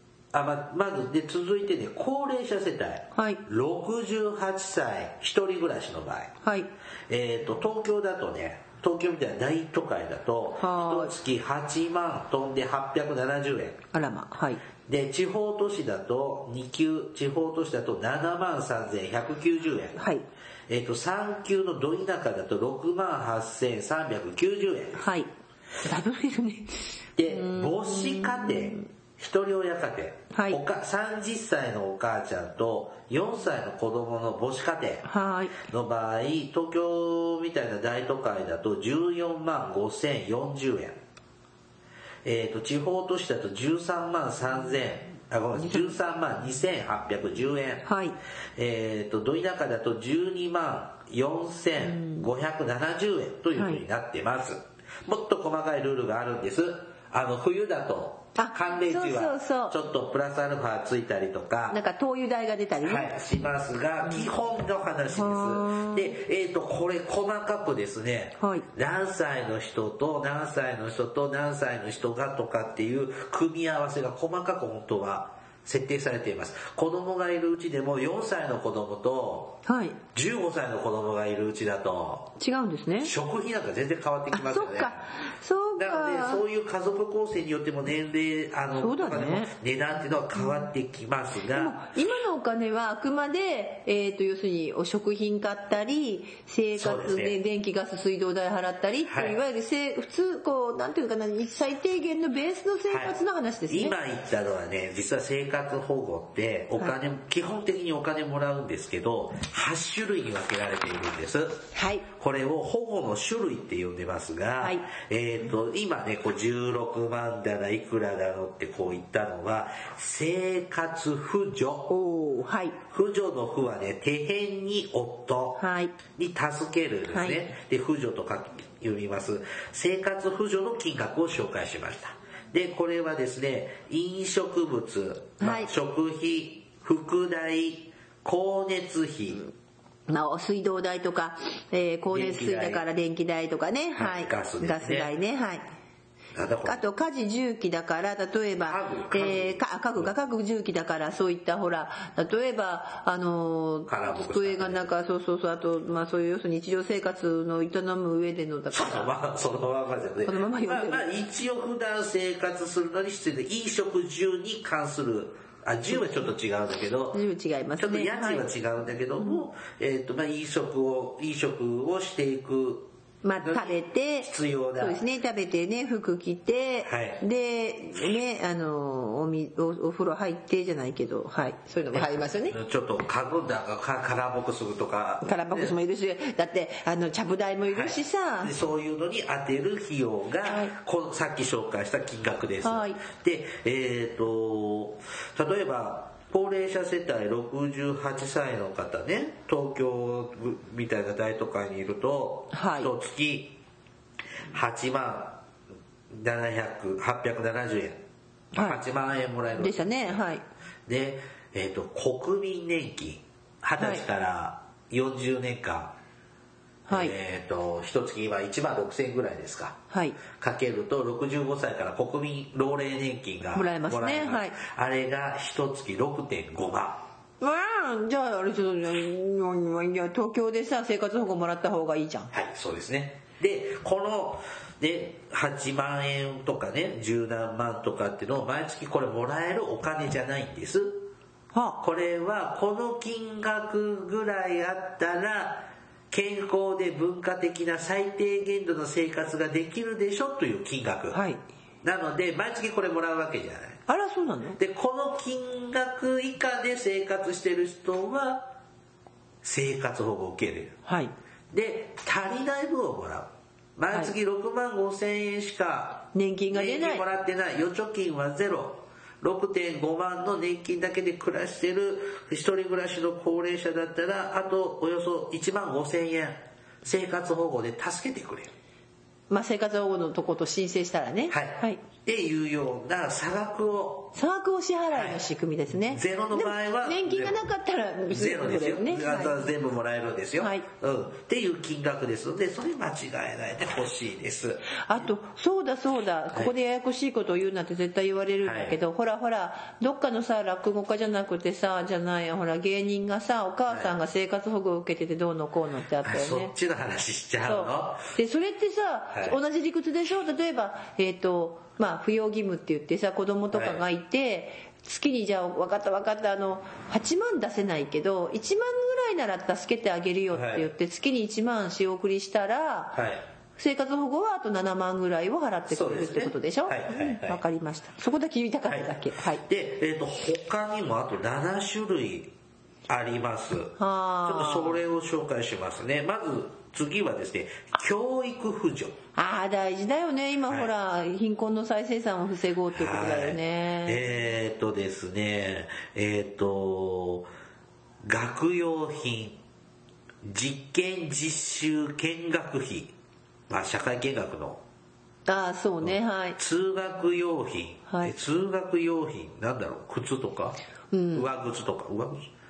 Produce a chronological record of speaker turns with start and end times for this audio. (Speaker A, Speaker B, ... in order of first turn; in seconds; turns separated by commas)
Speaker A: 0.3-6.3, Speaker B: 3.1-3.4, Speaker B: 6.4-6.7, Speaker A: 7.1-13.8, Speaker B: 10.6-11.1, Speaker B: 13.9-14.6, Speaker A: 14.8-20.0, Speaker B: 20.0-20.2, Speaker A: 20.7-25.0, Speaker B: 25.0-25.3, Speaker B: 25.8-28.8, Speaker A: 27.2-35.0, Speaker B: 30.3-30.6, Speaker B: 35.0-35.5, Speaker A: 35.6-41.0, Speaker A: 42.2-47.9, Speaker B: 45.6-45.9, Speaker B: 47.8-48.1, Speaker A: 48.5-61.8, Speaker B: 51.8-52.2, Speaker B: 53.5-53.8, Speaker B: 58.4-59.8, Speaker B: 61.7-63.1, Speaker A: 62.8-79.6, Speaker B: 65.1-66.1, Speaker B: 68.4-68.7, Speaker B: 79.7-80.0, Speaker A: 80.1-82.4, Speaker B: 82.4-83.1, Speaker A: 83.0-85.1, Speaker B: 84.3-86.4, Speaker A: 85.8-91.8, Speaker B: 88.8-89.5, Speaker B: 91.5-104.0, Speaker A: 96.8-97.3, Speaker A: 99.1-99.4, Speaker A: 102.9-121.9, Speaker B: 111.7-112.0, Speaker B: 121.9-122.8, Speaker A: 122.9-139.4, Speaker B: 125.6-125.9, Speaker B: 127.1-127.5, Speaker B: 135.4-135.7, Speaker B: 140.1-145.6, Speaker A: 142.1-142.8, Speaker A: 143.9-145.1, Speaker A: 146.3-146.8, Speaker B: 146.6-159.1, Speaker A: 148.6-150.1, Speaker A: 153.9-154.8, Speaker A: 158.7-167.2, Speaker B: 160.2-161.1, Speaker B: 167.1-168.5, Speaker A: 167.8-172.9, Speaker B: 173.2-182.6, Speaker A: 173.4-175.0, Speaker A: 176.8-177.2, Speaker A: 181.9-185.8, Speaker B: 185.2-188.5, Speaker A: 187.7-203.6, Speaker B: 190.5-190.7, Speaker B: 192.6-193.0, Speaker B: 202.5-202.9, Speaker A: 204.5-205.4, Speaker A: 206.1-208.0, Speaker B: 208.5-208.8, Speaker A: 208.6-210.1, Speaker B: 209.6-210.4, Speaker A: 210.9-215.9, Speaker B: 216.9-217.1, Speaker A: 216.9-219.8, Speaker B: 219.9-220.2, Speaker A: 220.3-227.0, Speaker B: 223.5-224.6, Speaker B: 227.4-232.3, Speaker A: 232.3-241.1, Speaker B: 241.5-241.8, Speaker A: 241.8-251.2, Speaker B: 251.1-251.4, Speaker A: 251.8-253.8, Speaker B: 253.9-254.6, Speaker A: 254.6-258.5, Speaker A: 259.4-260.8, Speaker B: 260.9-261.1, Speaker A: 261.5-278.5, Speaker B: 266.1-267.1, Speaker B: 279.3-281.8, Speaker A: 281.3-284.1, Speaker B: 284.1-289.4, Speaker A: 284.9-285.2, Speaker A: 285.8-287.4, Speaker A: 288.1-294.8, Speaker B: 290.4-290.6, Speaker B: 294.8-306.5, Speaker A: 298.4-298.8, Speaker A: 306.0-308.1, Speaker B: 307.4-323.0, Speaker A: 309.1-309.4, Speaker A: 313.5-313.8, Speaker A: 320.3-320.7, Speaker A: 322.9-323.2, Speaker B: 323.6-329.4, Speaker A: 325.7-327.4, Speaker A: 328.6-332.3, Speaker A: 332.9-339.0, Speaker B: 333.8-334.8, Speaker B: 339.1-344.0, Speaker A: 342.7-347.3, Speaker A: 348.0-349.4, Speaker A: 350.2-352.9, Speaker A: 353.5-354.6, Speaker B: 355.2-356.4, Speaker A: 355.8-360.6, Speaker B: 360.9-361.3, Speaker A: 361.1-362.2